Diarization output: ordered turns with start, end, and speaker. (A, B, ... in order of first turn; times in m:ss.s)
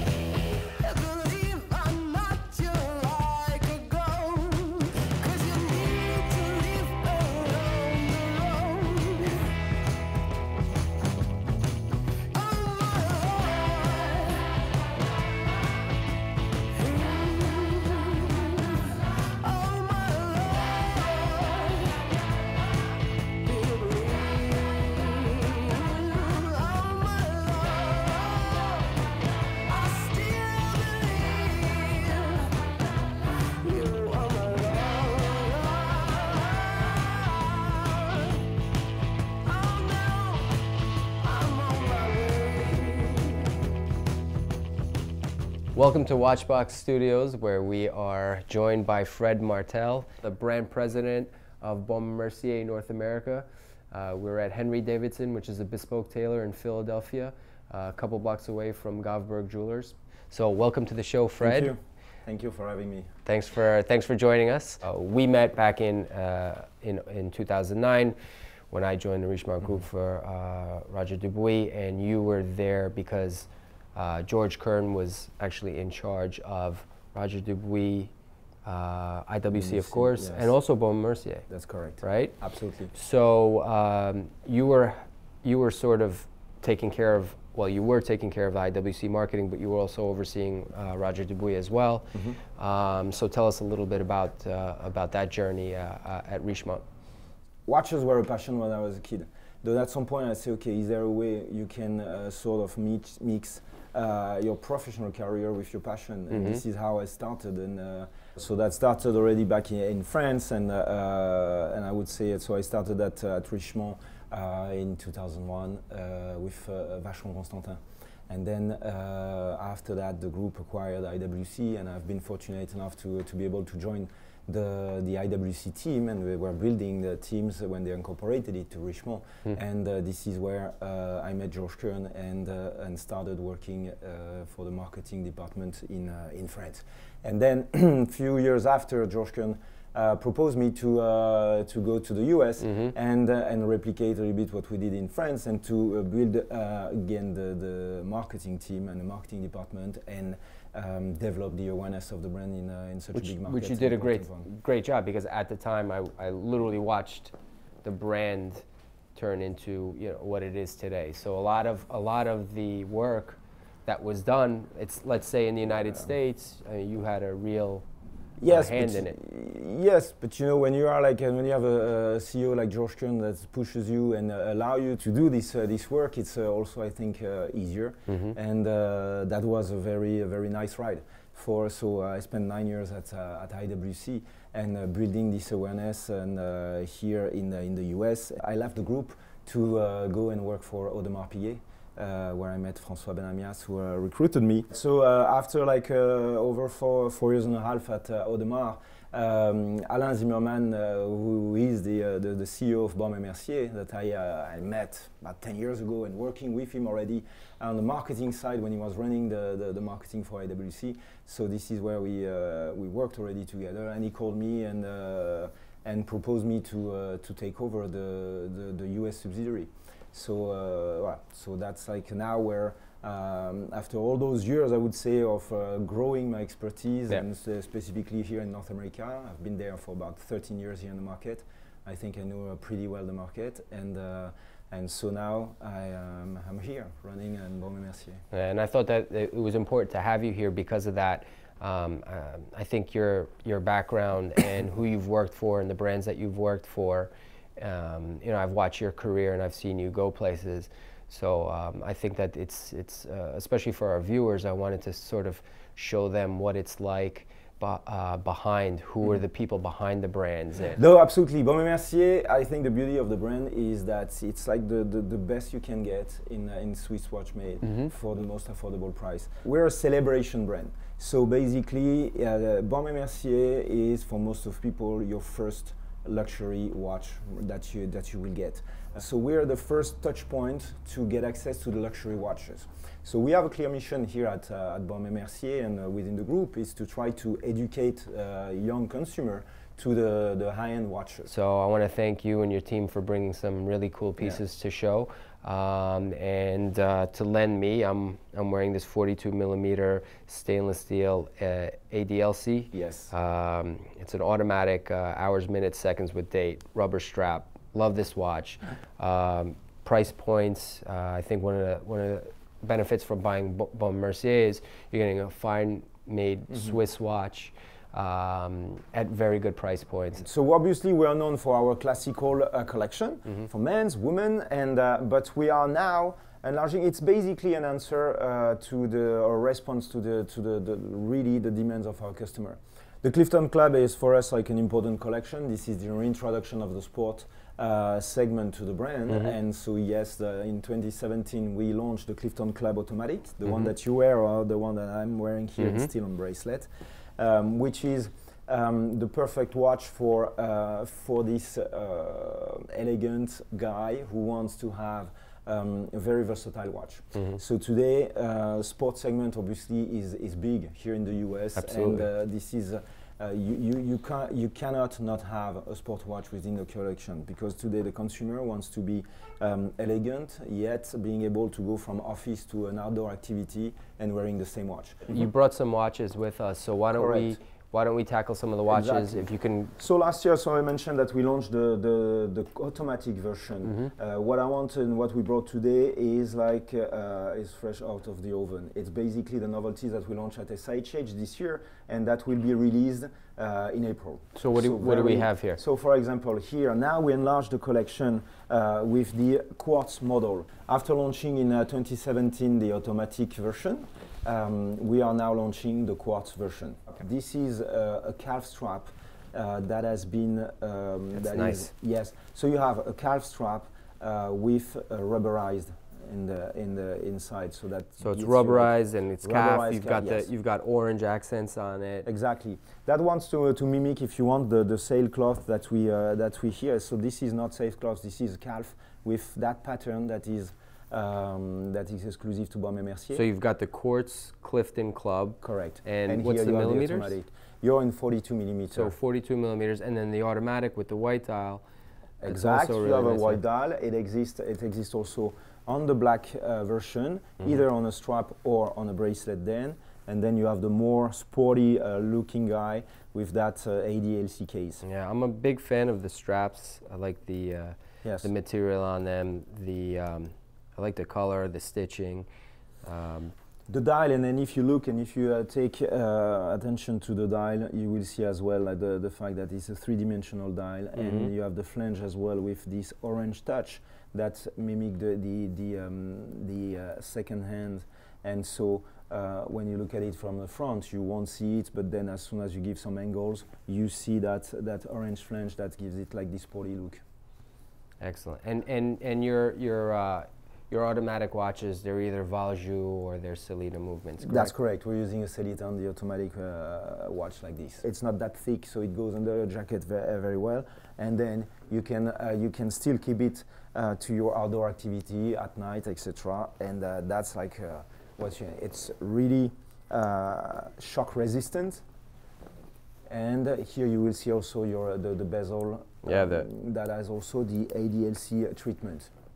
0:00.8-0:09.4 A
0:12.3-0:14.4 A
0:17.0-0:18.7 A
0:19.4-0:22.0 A
0:23.5-0:29.0 A
0:29.7-0:32.7 A
0:33.6-0:38.3 A
0:39.5-0:40.6 A
0:41.2-0:43.5 A
0:45.7-1:01.7 A
1:01.4-1:03.1 B
1:03.2-1:08.1 A
1:08.7-1:18.1 A
1:18.6-1:21.4 A
1:19.5-1:20.5 B
1:21.5-1:22.9 B
1:22.0-1:22.3 A
1:22.9-1:36.8 A
1:32.1-1:32.4 B
1:37.6-2:34.5 B
1:46.3-1:46.6 A
2:22.6-2:22.9 A
2:33.1-2:38.6 A
2:39.2-2:47.8 A
2:48.4-3:58.2 B
2:48.5-2:49.2 A
2:58.1-2:58.4 A
3:58.3-4:20.8 A
4:20.8-4:51.3 B
4:27.6-4:27.9 A
4:51.3-5:20.2 A
5:02.7-5:03.1 B
5:16.5-5:16.8 B
5:20.2-6:15.1 B
5:39.1-5:39.4 A
5:43.4-5:43.7 A
5:45.6-5:45.9 A
6:01.6-6:02.1 A
6:15.1-6:19.8 A
6:16.9-6:17.4 B
6:18.7-7:00.3 B
6:23.6-6:23.9 A
6:34.3-6:35.6 A
6:51.2-6:51.7 A
6:58.0-7:02.1 A
7:02.0-7:13.2 B
7:13.1-7:17.2 A
7:15.4-7:18.9 B
7:18.7-7:21.6 A
7:22.2-7:34.8 B
7:22.2-7:23.4 A
7:34.8-7:42.3 A
7:38.0-7:38.3 B
7:42.8-7:43.3 A
7:43.7-8:07.0 B
7:51.0-7:51.3 A
8:08.0-8:14.5 A
8:14.2-8:31.8 B
8:33.1-8:39.1 B
8:36.0-8:36.5 A